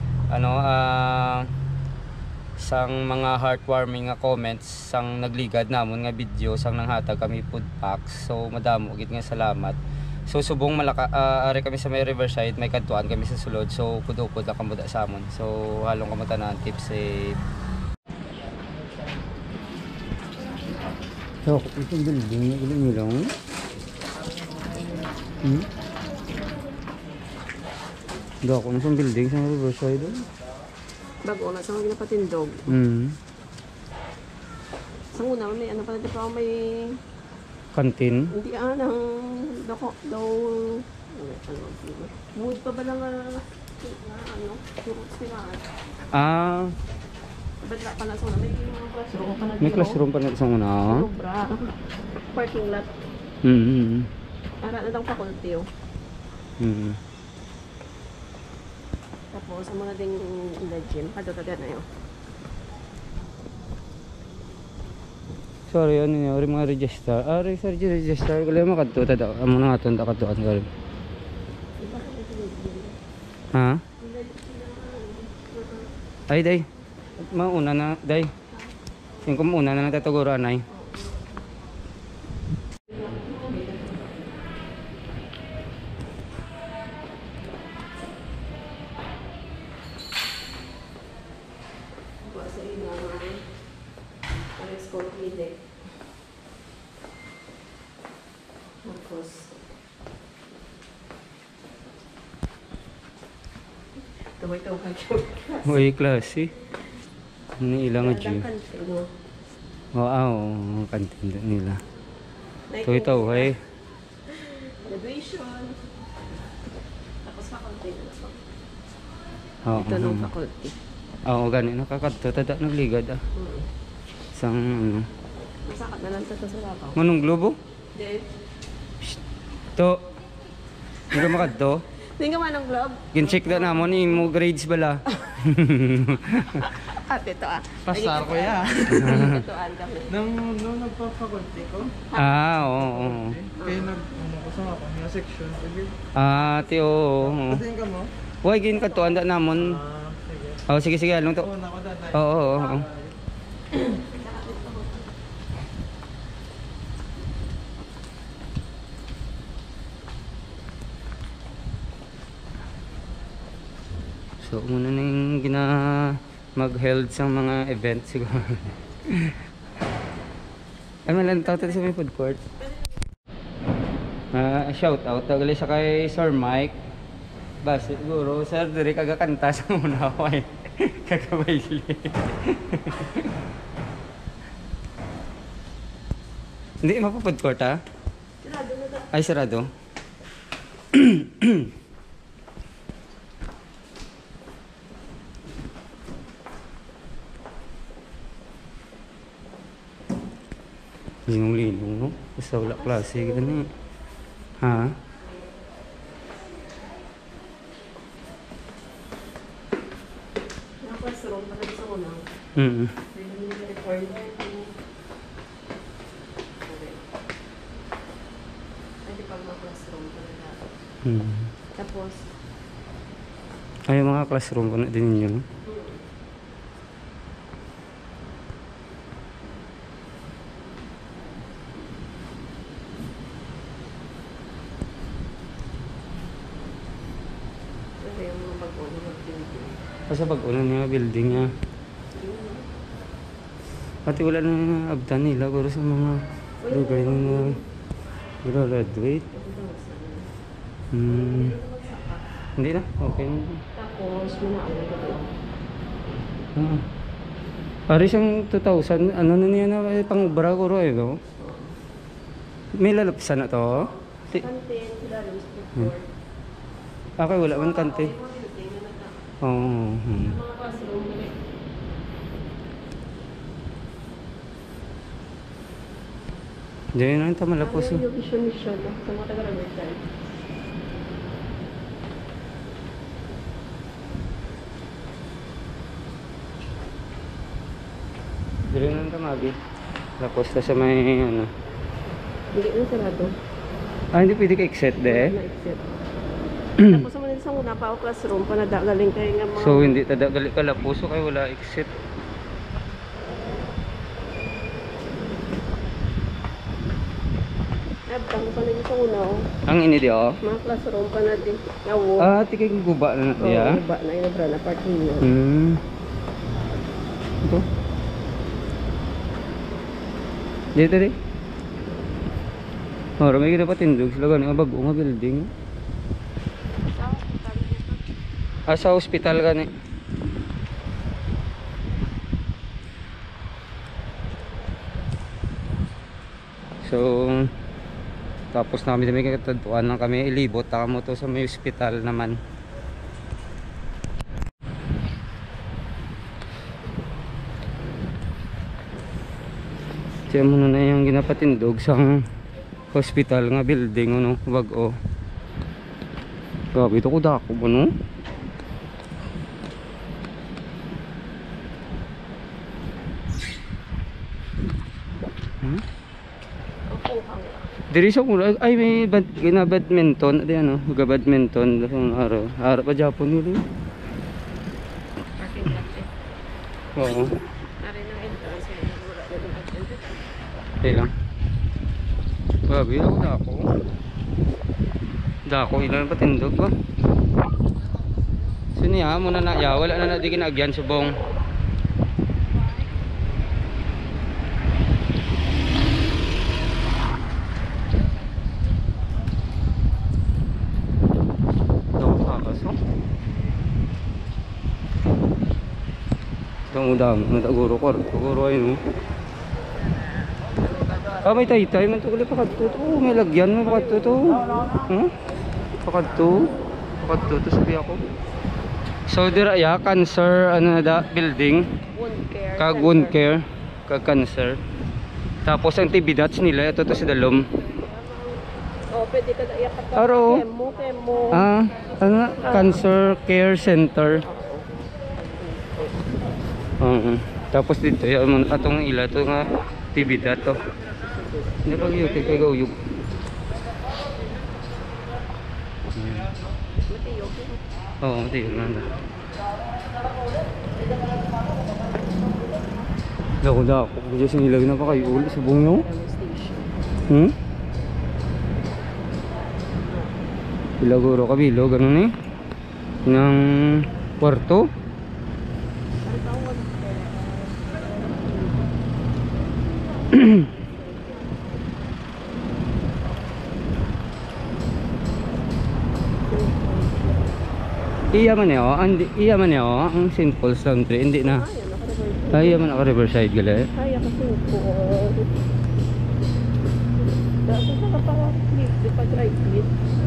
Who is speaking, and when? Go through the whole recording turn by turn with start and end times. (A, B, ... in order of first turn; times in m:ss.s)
0:00.3-0:01.5 A
0:02.6-0:17.4 A
0:21.5-0:23.3 A
0:28.4-0:30.2 A
0:31.2-0:32.8 B
0:32.7-0:33.2 A
0:35.1-0:37.0 B
0:37.7-0:38.3 A
0:38.3-0:45.7 B
0:46.1-0:46.7 A
0:47.6-0:50.0 B
0:49.6-0:51.1 A
0:50.9-0:51.7 B
0:52.3-0:52.9 B
0:53.4-0:54.1 A
0:54.6-0:55.7 B
0:56.6-0:57.0 A
0:59.3-1:01.9 B
1:05.7-1:10.7 A
1:11.8-1:13.0 B
1:13.5-1:13.8 A
1:14.0-1:16.0 B
1:16.3-1:16.6 A
1:17.2-1:18.3 A
1:19.2-1:20.7 A
1:20.7-1:21.1 B
1:22.9-1:24.2 B
1:32.2-1:33.5 B
1:34.6-1:35.6 B
1:38.8-1:39.5 B
1:44.4-1:45.9 B
1:45.6-1:46.5 A
1:47.6-1:48.5 A
1:48.0-1:49.1 B
1:50.0-1:51.8 A
1:52.7-1:53.5 B
1:52.9-1:53.6 A
1:54.3-1:55.8 B
1:57.2-1:58.4 B
1:59.6-2:00.3 A
1:59.8-2:00.8 B
2:01.3-2:03.2 A
2:03.4-2:03.7 B
2:04.3-2:05.1 A
2:05.7-2:07.0 B
2:07.0-2:07.6 A
2:08.0-2:08.3 B
2:11.1-2:11.6 B
2:11.1-2:11.8 A
2:12.2-2:14.3 B
2:13.1-2:16.7 A
2:16.6-2:20.3 B
2:18.9-2:19.4 A
2:20.3-2:21.9 C
2:22.0-2:22.5 B
2:22.1-2:23.5 A
2:23.6-2:24.1 B
2:23.9-2:25.9 C
2:26.2-2:27.7 A
2:27.8-2:28.0 C
2:28.4-2:29.8 A
2:30.7-2:32.9 A
2:33.7-2:35.0 B
2:44.4-2:49.4 A
2:51.1-2:52.4 A
2:54.3-2:56.7 A
2:57.6-3:03.3 A
3:06.8-3:07.8 A
3:08.4-3:09.1 B
3:09.1-3:09.7 A
3:10.9-3:11.7 A
3:21.3-3:23.7 A
3:22.8-3:23.7 B
3:24.6-3:25.0 A
3:30.8-3:32.2 B
3:32.6-3:32.9 A
3:33.1-3:34.7 B
3:36.7-3:37.0 B
3:39.0-3:40.6 B
3:41.0-3:41.5 A
3:41.8-3:42.3 B
3:43.9-3:45.4 A
3:45.7-3:46.0 B
3:58.0-3:59.8 B
4:00.1-4:01.5 A
4:02.1-4:02.7 B
4:04.1-4:07.6 A
4:06.6-4:07.6 B
4:08.4-4:09.3 A
4:09.3-4:10.3 B
4:10.9-4:11.6 A
4:11.1-4:12.4 B
4:12.6-4:13.6 A
4:13.8-4:15.4 B
4:16.6-4:16.8 A
4:17.9-4:21.2 A
4:21.4-4:21.8 B
4:22.8-4:24.4 A
4:24.3-4:26.1 B
4:27.2-4:28.1 A
4:27.4-4:29.2 B
4:29.4-4:30.4 A
4:30.2-4:31.4 B
4:37.0-4:38.0 A
4:37.6-4:40.1 B
4:48.7-4:49.6 A
4:50.2-4:51.5 A
4:52.5-4:53.3 B
4:54.1-4:55.3 A
4:55.0-4:55.8 B
4:56.8-5:00.0 B
4:59.6-5:01.9 A
5:08.1-5:09.5 B
5:09.7-5:10.4 A
5:10.4-5:12.3 B
5:12.2-5:13.8 A
5:13.4-5:15.3 B
5:15.2-5:15.8 A
5:20.8-5:21.2 A
5:23.2-5:25.5 A
5:26.9-5:28.0 B
5:28.7-5:29.7 A
5:36.8-5:37.5 A
5:38.5-5:42.4 A
5:50.3-5:52.2 A
5:52.9-5:54.9 A
5:56.7-5:57.9 A
6:06.9-6:07.7 B
6:07.9-6:13.6 A
6:15.4-6:16.1 B
6:17.0-6:17.3 A
6:17.8-6:20.1 B
6:20.8-6:21.1 A
6:22.7-6:23.7 A
6:25.5-6:26.7 A
6:28.8-6:31.2 A
6:42.0-6:42.8 A
6:46.7-6:48.8 A
6:51.2-6:55.1 A
6:55.8-6:56.5 A
6:57.0-6:58.0 A
6:59.1-7:01.7 A
7:02.0-7:03.2 B
7:02.6-7:04.6 A
7:05.4-7:07.5 A
7:07.0-7:11.5 B
7:10.0-7:10.4 A
7:11.3-7:14.2 A
7:12.2-7:12.9 B
7:14.2-7:14.7 B
7:15.2-7:16.2 B
7:16.8-7:20.6 A
7:21.6-7:22.8 A
7:26.0-7:26.3 A
7:26.9-7:27.6 B
7:28.0-7:28.9 A
7:33.4-7:35.8 A
7:35.0-7:36.6 B
7:39.8-7:40.1 B
7:40.8-7:42.1 A
7:43.1-7:44.7 A
7:46.0-7:48.1 B
7:50.1-7:50.5 A
7:50.6-7:51.2 B
7:56.3-7:57.3 B
7:58.1-8:01.4 A
8:01.2-8:02.7 B
8:02.3-8:03.7 A
8:03.8-8:05.3 B
8:07.5-8:09.8 B